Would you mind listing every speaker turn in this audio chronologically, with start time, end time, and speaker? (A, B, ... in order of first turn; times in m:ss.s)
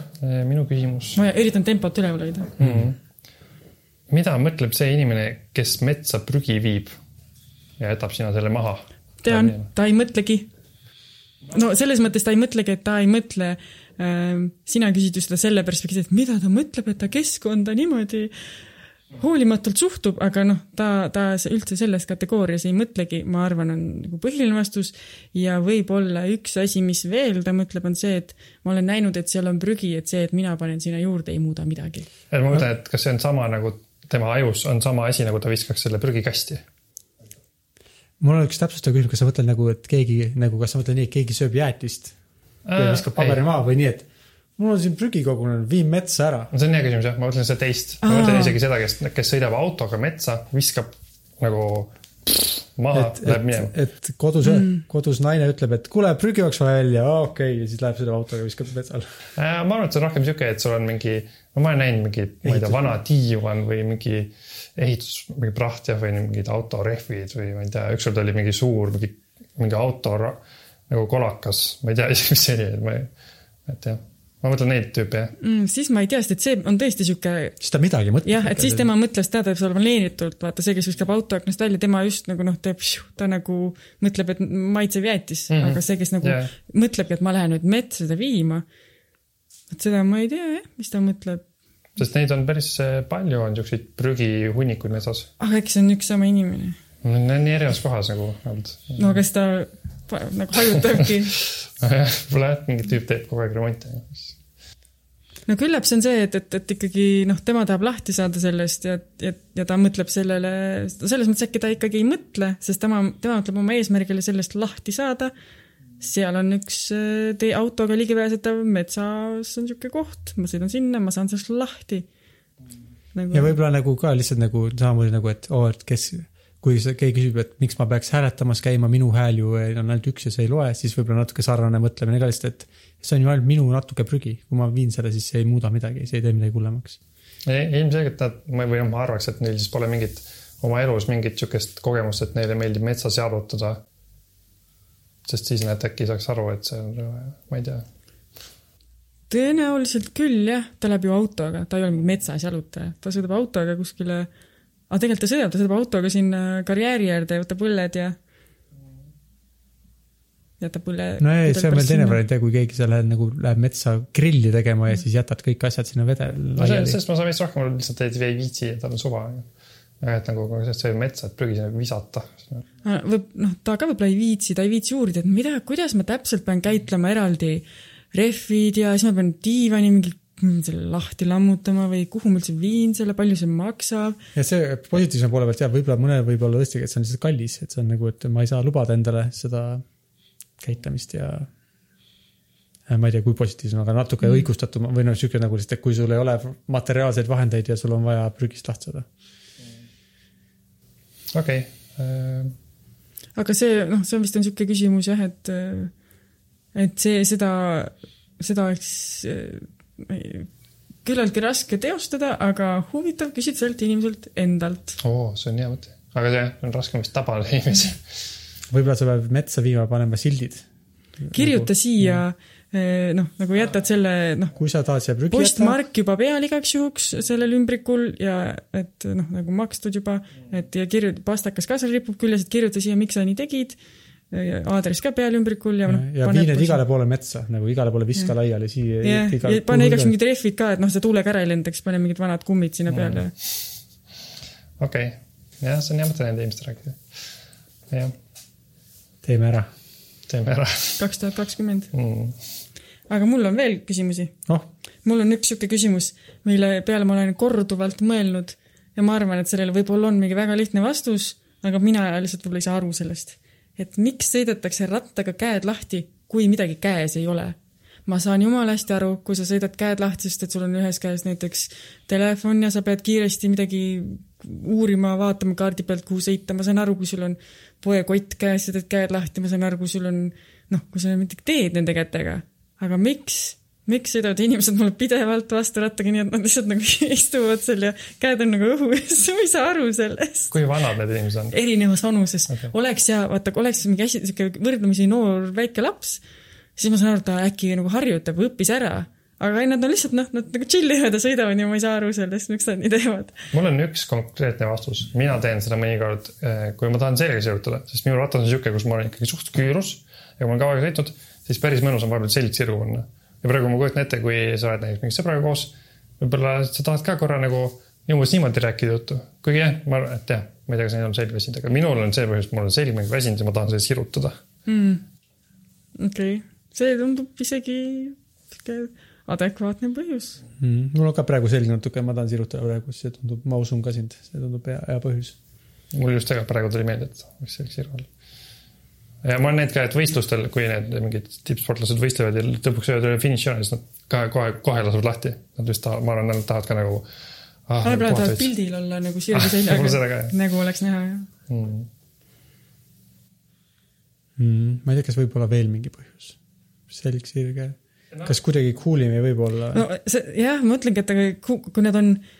0:00.2-0:01.2 A
0:01.2-0:02.5 B
0:02.6-0:03.0 A
0:02.6-0:02.9 C
0:04.1-0:07.0 A
0:07.8-0:09.7 A
0:09.2-0:10.5 B
0:11.5-0:18.3 B
0:19.2-0:32.1 B
0:32.3-0:36.6 A
0:38.2-0:42.2 C
0:42.7-0:43.4 A
0:42.8-0:46.5 C
0:46.5-0:53.7 A
0:48.0-0:48.6 B
0:52.9-0:59.1 C
0:54.4-0:54.8 B
0:59.4-1:13.1 A
1:02.4-1:03.0 C
1:13.7-1:15.3 A
1:15.4-1:17.6 B
1:17.6-1:18.9 C
1:18.2-1:28.6 B
1:25.5-1:26.5 A
1:29.7-1:31.4 B
1:32.0-1:35.3 A
1:35.4-1:36.8 B
1:37.0-1:39.2 A
1:39.0-1:41.3 B
1:41.5-1:44.4 A
1:45.5-1:55.3 B
1:56.0-2:02.1 B
2:03.1-2:03.5 B
2:03.3-2:17.0 C
2:17.4-2:23.8 A
2:25.3-2:27.8 A
2:29.3-2:34.3 B
2:34.9-2:38.2 B
2:40.6-2:42.2 B
2:41.2-2:47.0 C
2:46.6-2:49.5 A
2:50.0-2:52.6 A
2:52.8-3:04.2 B
3:04.4-3:09.8 C
3:10.6-3:11.5 C
3:12.9-3:19.1 C
3:21.3-3:22.5 A
3:23.4-3:25.9 B
3:26.7-3:30.5 B
3:31.0-3:35.0 B
3:35.0-3:38.0 A
3:38.7-3:40.7 C
3:41.2-3:42.2 C
3:41.3-3:44.5 B
3:44.6-3:45.8 C
3:45.3-3:53.8 B
3:54.3-3:56.8 B
3:55.8-4:00.1 C
3:59.0-4:03.3 B
4:04.8-4:07.0 A
4:09.2-4:09.7 C
4:10.3-4:11.0 A
4:11.0-4:11.9 B
4:11.9-4:12.4 A
4:13.1-4:14.4 B
4:15.0-4:50.5 B
4:50.5-4:51.6 A
4:51.5-4:56.2 B
4:56.8-5:03.4 B
5:03.5-5:24.4 A
5:24.7-5:25.0 B
5:26.0-5:30.4 B
5:30.6-5:35.4 C
5:35.9-5:38.1 A
5:39.2-5:47.1 A
5:47.7-5:48.5 A
5:47.8-5:51.3 B
5:49.3-5:50.4 A
5:51.5-5:51.9 A
5:54.4-5:56.4 C
5:56.9-5:59.8 C
5:59.7-6:02.2 B